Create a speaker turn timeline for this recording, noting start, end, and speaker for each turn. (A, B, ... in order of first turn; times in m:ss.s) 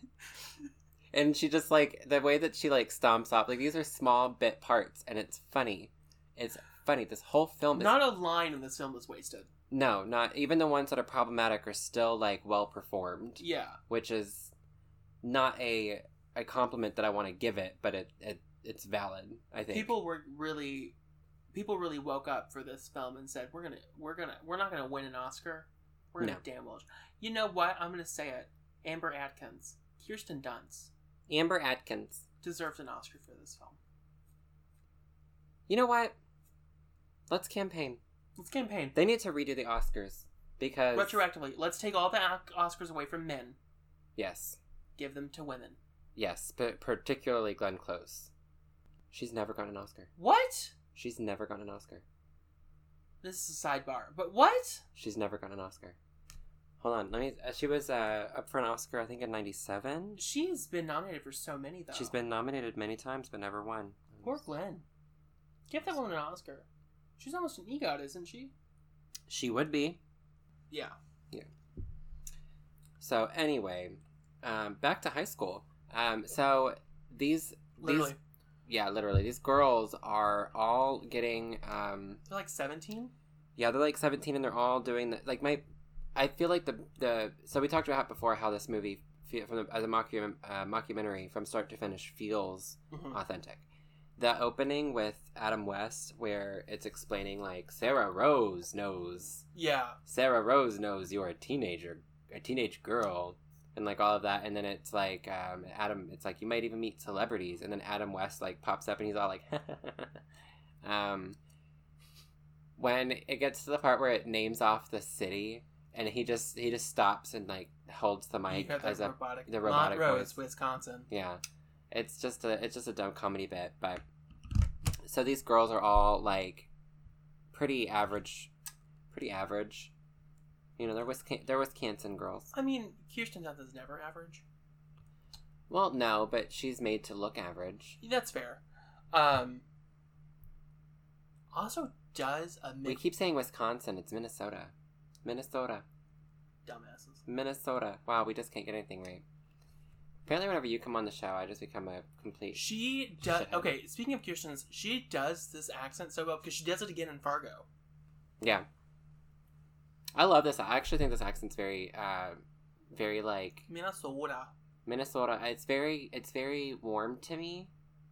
0:01.1-0:08.0 A
0:07.7-0:09.5 B
0:09.7-0:14.5 A
0:13.4-0:13.8 B
0:15.2-0:19.9 A
0:19.7-0:20.9 B
0:21.5-0:30.9 B
0:31.3-0:32.2 A
0:32.4-0:33.8 B
0:35.7-0:36.1 A
0:37.3-0:38.0 A
0:38.4-0:39.0 B
0:38.9-0:41.2 A
0:40.9-0:43.6 B
0:44.2-0:44.6 A
0:45.0-0:45.8 B
0:46.2-0:48.3 A
0:49.1-0:50.1 A
0:50.2-0:50.7 B
0:50.9-0:52.0 A
0:53.2-0:54.8 B
0:54.9-0:56.0 A
0:56.8-1:00.2 A
1:00.2-1:02.1 B
1:01.9-1:04.4 A
1:04.2-1:04.8 B
1:05.7-1:06.7 B
1:07.2-1:08.5 B
1:09.3-1:10.0 A
1:13.0-1:18.1 A
1:17.8-1:18.2 B
1:18.7-1:22.2 A
1:22.3-1:23.1 B
1:23.6-1:25.6 A
1:26.1-1:33.6 A
1:32.9-1:33.2 B
1:34.2-1:39.4 A
1:39.5-1:40.0 B
1:40.0-1:50.2 A
1:50.8-1:51.4 A
1:52.8-2:00.3 A
1:58.5-2:01.1 B
2:01.1-2:01.4 A
2:01.9-2:04.0 A
2:05.0-2:06.7 A
2:07.5-2:08.5 A
2:09.1-2:09.9 A
2:10.8-2:12.5 A
2:12.5-2:14.4 B
2:15.7-2:18.0 A
2:18.0-2:19.6 B
2:21.5-2:23.0 B
2:22.8-2:24.7 A
2:25.2-2:25.8 A
2:26.6-2:27.2 B
2:27.2-2:29.2 A
2:30.2-2:33.7 A
2:32.5-2:37.7 B
2:38.4-2:38.7 A
2:40.1-2:42.4 A
2:42.9-2:43.6 A
2:43.7-2:44.5 B
2:44.8-2:47.7 A